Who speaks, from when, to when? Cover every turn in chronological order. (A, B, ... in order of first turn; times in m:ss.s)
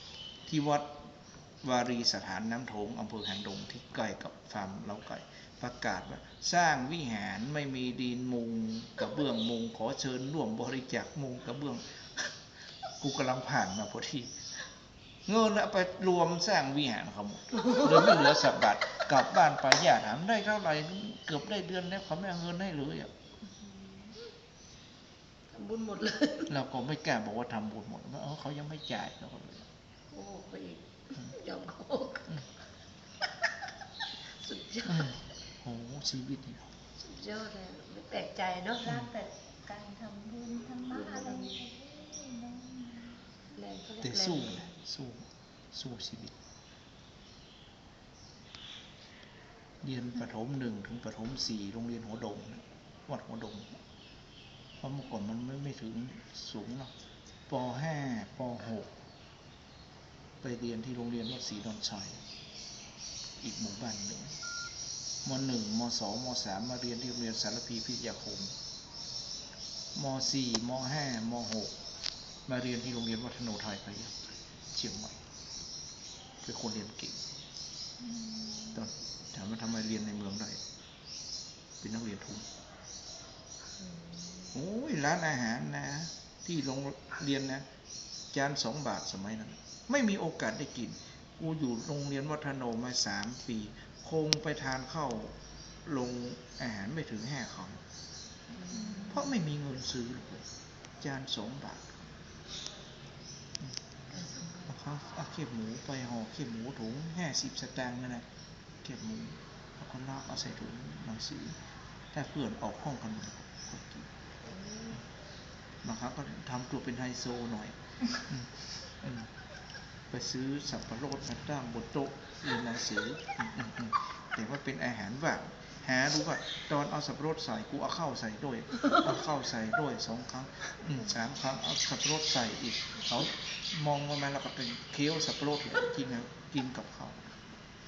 0:00.4-0:01.0 A
0:01.6-0:12.3 A
0:13.0-0:14.4 A
0:15.2-0:23.1 A
0:23.5-0:24.3 B
0:25.5-0:26.5 B
0:26.5-0:29.7 A
0:30.1-0:32.3 B
0:34.2-0:35.2 B
0:34.8-0:36.7 A
0:37.0-0:39.0 B
0:39.0-0:43.2 C
0:40.9-0:41.6 B
0:43.5-0:44.7 B
0:44.0-0:46.3 A
0:49.8-0:53.8 A
0:54.8-0:56.9 A
0:57.5-0:58.9 A
1:00.4-1:02.2 A
1:03.4-1:04.4 A
1:05.2-1:08.6 A
1:09.9-1:11.7 A
1:12.4-1:15.2 A
1:16.4-1:17.2 A
1:18.7-1:20.6 A
1:21.8-1:22.5 A
1:23.7-1:24.5 B
1:24.5-1:27.6 A
1:28.3-1:37.8 A
1:38.6-1:39.1 B
1:39.0-1:40.5 A
1:41.0-1:42.1 A
1:44.1-1:44.7 B
1:44.6-1:48.2 A
1:48.8-1:51.6 A
1:52.1-1:54.1 A
1:54.4-1:55.0 B
1:55.8-1:59.3 A
2:00.1-2:17.3 A